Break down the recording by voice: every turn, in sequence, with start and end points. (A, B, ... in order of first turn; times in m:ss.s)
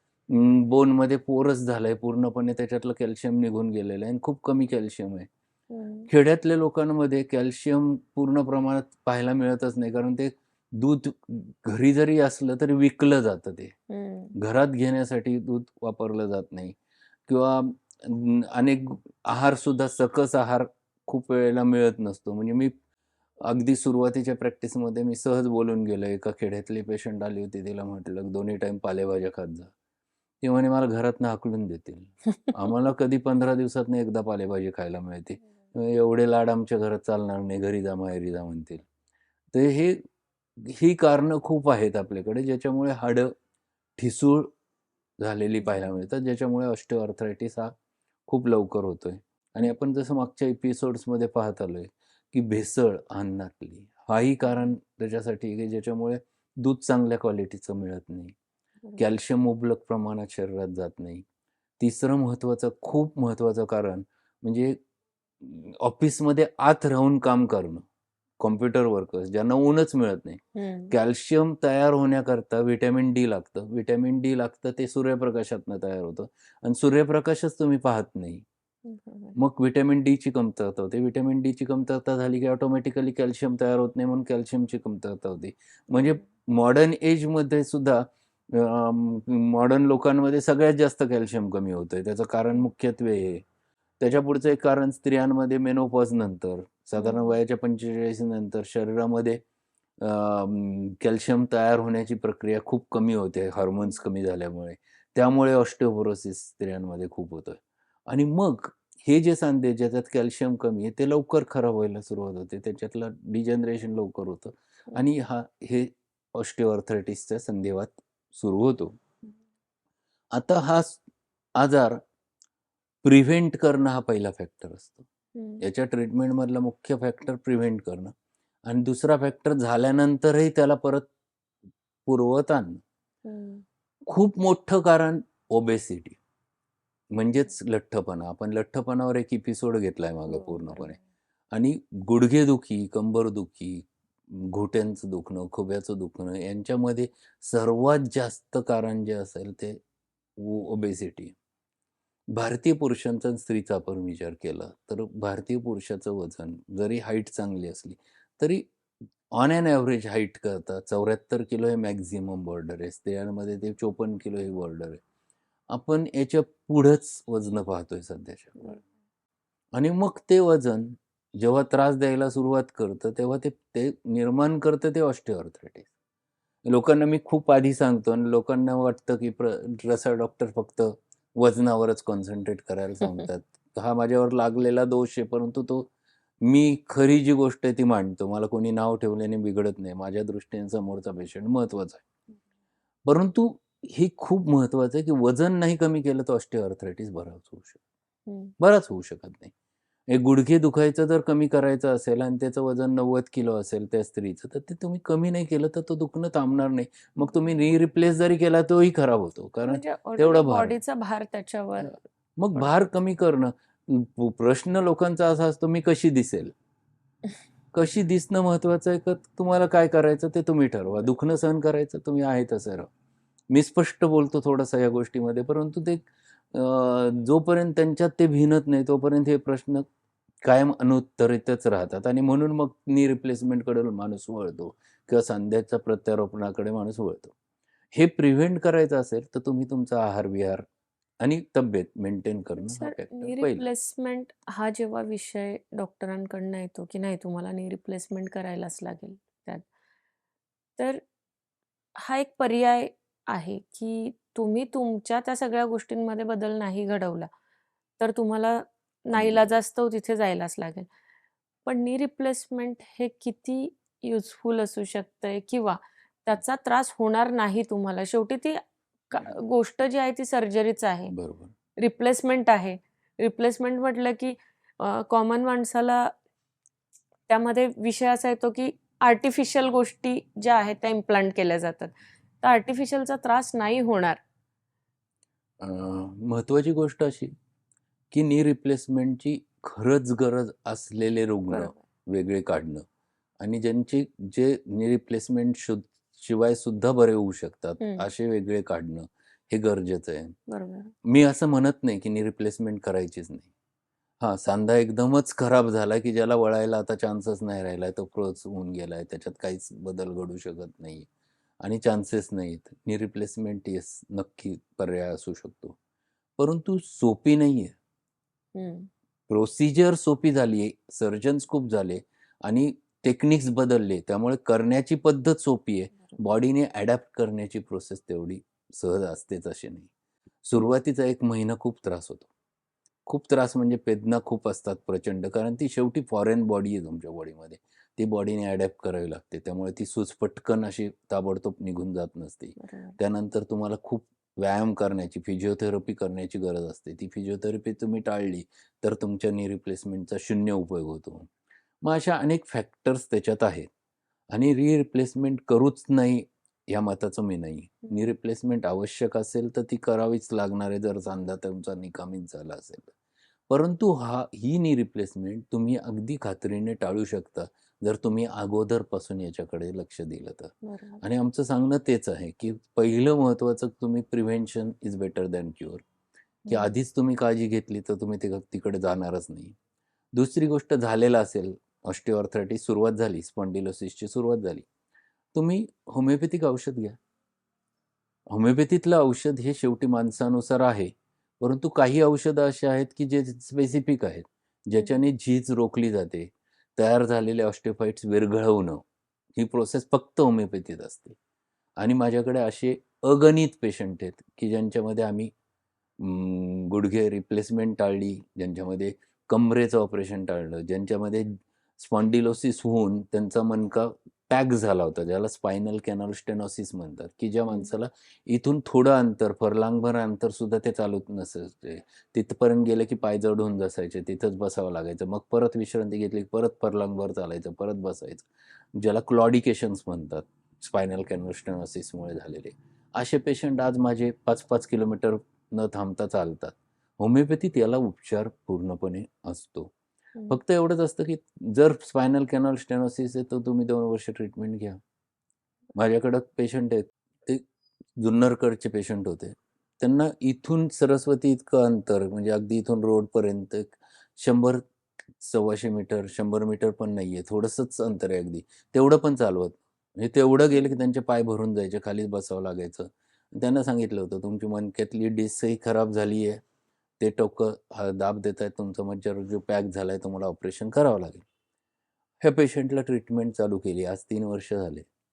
0:00.3-0:05.3 A
0:05.7-0:06.1 B
0:06.1-0:13.8 A
0:13.9-0:14.4 B
0:14.4-0:16.8 A
0:17.3-0:22.7 A
0:23.4-0:29.7 A
0:30.4-0:38.8 A
0:39.5-0:40.0 A
0:40.6-0:43.4 A
0:44.0-0:44.5 A
0:45.2-0:47.7 A
0:45.6-0:46.0 B
0:48.3-0:58.4 A
0:59.0-1:01.2 A
1:01.8-1:04.8 A
1:05.4-1:07.9 A
1:08.4-1:18.4 A
1:10.6-1:10.9 B
1:18.8-1:19.4 B
1:19.4-1:33.5 A
1:34.0-1:39.4 A
1:37.0-1:37.4 B
1:40.0-1:59.0 A
2:00.3-2:01.0 A
2:01.6-2:02.0 A
2:03.0-2:05.1 A
2:05.4-2:05.6 B
2:05.6-2:08.1 A
2:08.7-2:11.1 A
2:12.1-2:12.8 A
2:13.2-2:13.6 B
2:14.1-2:16.2 A
2:17.1-2:21.0 A
2:20.3-2:21.0 B
2:21.5-2:29.8 A
2:30.4-2:31.4 A
2:32.3-2:38.7 A
2:39.3-2:45.0 A
2:45.7-2:48.8 A
2:49.7-2:55.9 A
2:56.6-3:05.9 A
3:06.4-3:12.0 A
3:13.1-3:17.8 A
3:18.3-3:18.5 B
3:18.6-3:19.5 A
3:20.1-3:30.8 A
3:29.7-3:32.0 B
3:31.8-3:36.5 A
3:37.7-3:42.9 A
3:43.5-3:49.8 A
3:50.4-3:57.3 A
3:57.9-4:00.7 A
4:01.2-4:03.7 A
4:02.6-4:09.7 B
4:10.8-4:11.0 B
4:12.0-4:17.3 B
4:18.0-4:20.9 B
4:19.1-4:19.6 A
4:21.6-4:31.1 B
4:31.1-4:31.6 A
4:31.8-4:36.1 B
4:37.3-4:44.2 B
4:45.6-4:47.3 A
4:48.1-4:52.8 A
4:51.5-4:51.8 B
4:53.4-5:00.4 A
4:57.8-4:58.1 B
5:00.5-5:00.9 B
5:01.0-5:03.5 A
5:04.2-5:11.1 A
5:11.6-5:15.8 A
5:16.4-5:17.8 A
5:18.6-5:18.9 B
5:19.3-5:29.9 A
5:30.4-5:32.3 A
5:33.1-5:51.3 A
5:42.6-5:43.0 B
5:51.8-5:53.7 A
5:54.3-6:02.9 A
6:03.5-6:15.8 A
6:10.6-6:11.0 B
6:16.5-6:16.8 B
6:16.5-6:19.6 A
6:20.1-6:24.7 A
6:25.3-6:27.0 A
6:28.3-6:38.8 A
6:39.4-6:41.2 A
6:41.8-6:45.3 A
6:46.0-7:19.7 A
6:57.5-6:57.7 B
7:20.3-7:24.8 A
7:25.8-7:27.4 A
7:28.0-7:34.6 A
7:35.2-7:46.4 A
7:47.0-7:51.2 A
7:52.2-7:54.9 A